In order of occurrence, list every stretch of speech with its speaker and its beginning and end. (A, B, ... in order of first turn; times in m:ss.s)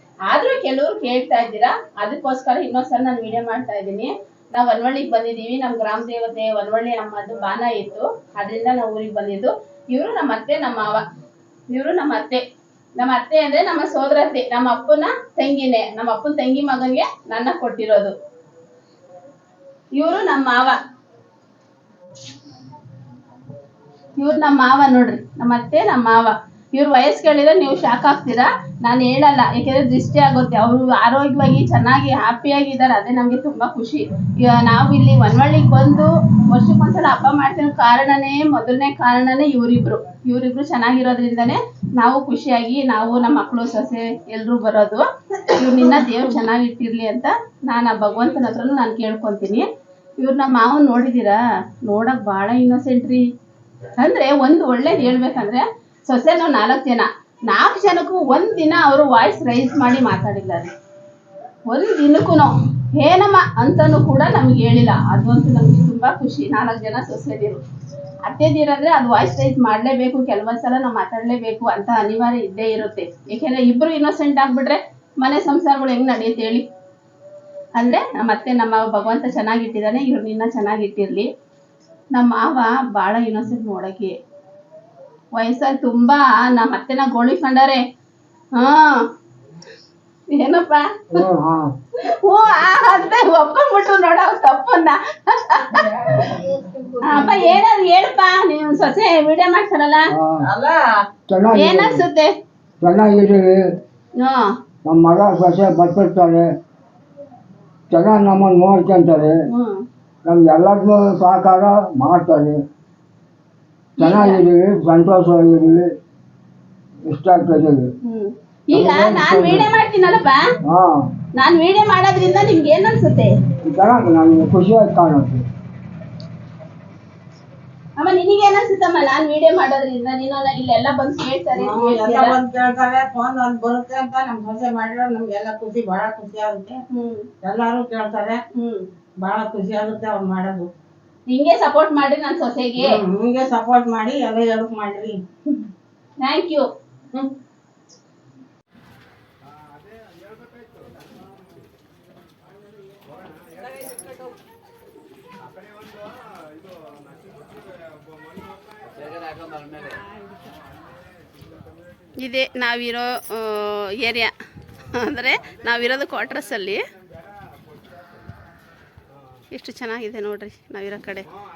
0:00.3-0:11.0 A
0:11.7-0:12.4 A
0:13.0-0:18.1 A
0:20.0-0:20.8 A
0:24.2-0:49.6 A
0:50.2-0:53.2 A
0:54.0-1:00.7 A
1:01.7-1:07.6 A
1:08.2-1:16.6 A
1:17.8-1:21.3 A
1:22.1-1:24.1 A
1:25.4-1:27.8 A
1:28.5-1:29.0 A
1:30.3-1:31.2 A
1:31.1-1:31.7 B
1:32.1-1:35.9 A
1:35.8-1:37.5 C
1:37.0-1:40.1 A
1:40.1-1:40.4 B
1:40.4-1:41.0 C
1:41.3-1:42.0 B
1:41.5-1:42.4 A
1:42.8-1:43.6 B
1:44.2-1:44.5 A
1:44.8-1:46.4 B
1:47.9-1:49.3 B
1:49.5-1:49.8 A
1:50.2-1:52.6 B
1:54.0-1:54.4 A
1:54.0-1:55.9 B
1:57.1-1:57.9 B
1:58.0-2:00.5 A
1:58.7-1:59.7 B
2:00.7-2:01.0 B
2:01.4-2:03.3 A
2:03.6-2:05.4 B
2:08.0-2:12.3 A
2:11.6-2:16.8 C
2:16.9-2:17.3 A
2:17.4-2:18.4 C
2:18.5-2:18.9 A
2:19.2-2:20.7 C
2:21.3-2:23.0 A
2:22.8-2:25.2 C
2:26.2-2:26.7 A
2:42.2-2:46.8 A
2:49.5-2:51.3 A